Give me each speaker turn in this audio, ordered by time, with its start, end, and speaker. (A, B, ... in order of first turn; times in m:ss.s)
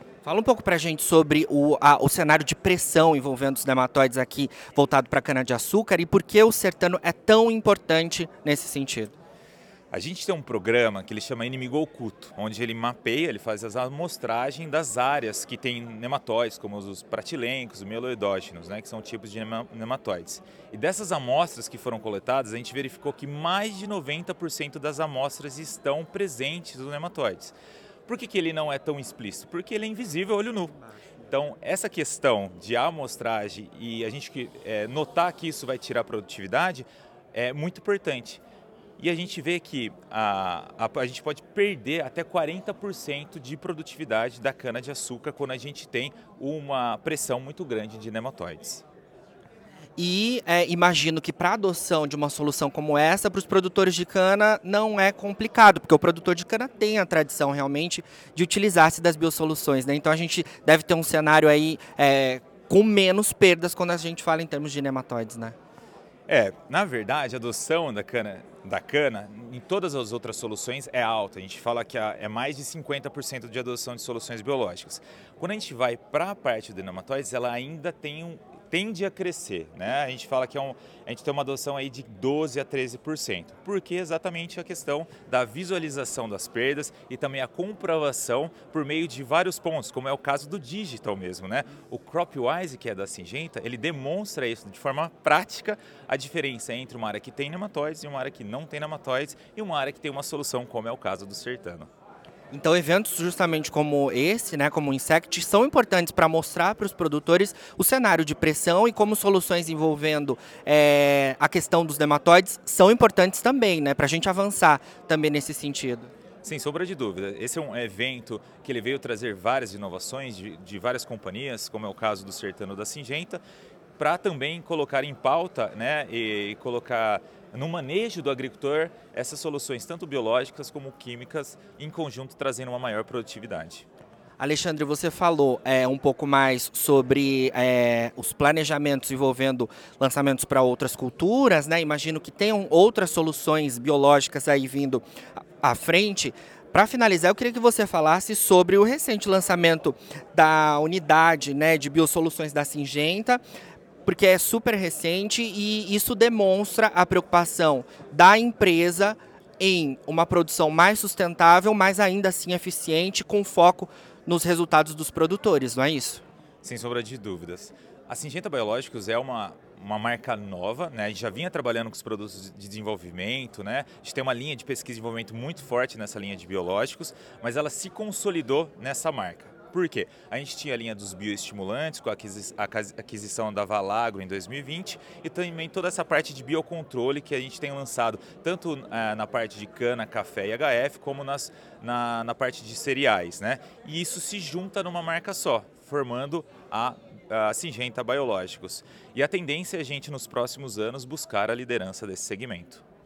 0:00.2-0:09.1 A
0:09.9-0:27.5 B
0:28.1-0:38.4 B
0:39.0-0:48.8 B
0:50.0-1:05.5 A
1:06.3-1:41.9 B
1:42.5-1:56.1 A
1:56.4-2:03.4 B
2:04.0-2:13.8 B
2:14.4-2:25.0 A
2:25.6-2:33.4 A
2:34.0-2:46.2 A
2:46.6-3:22.8 B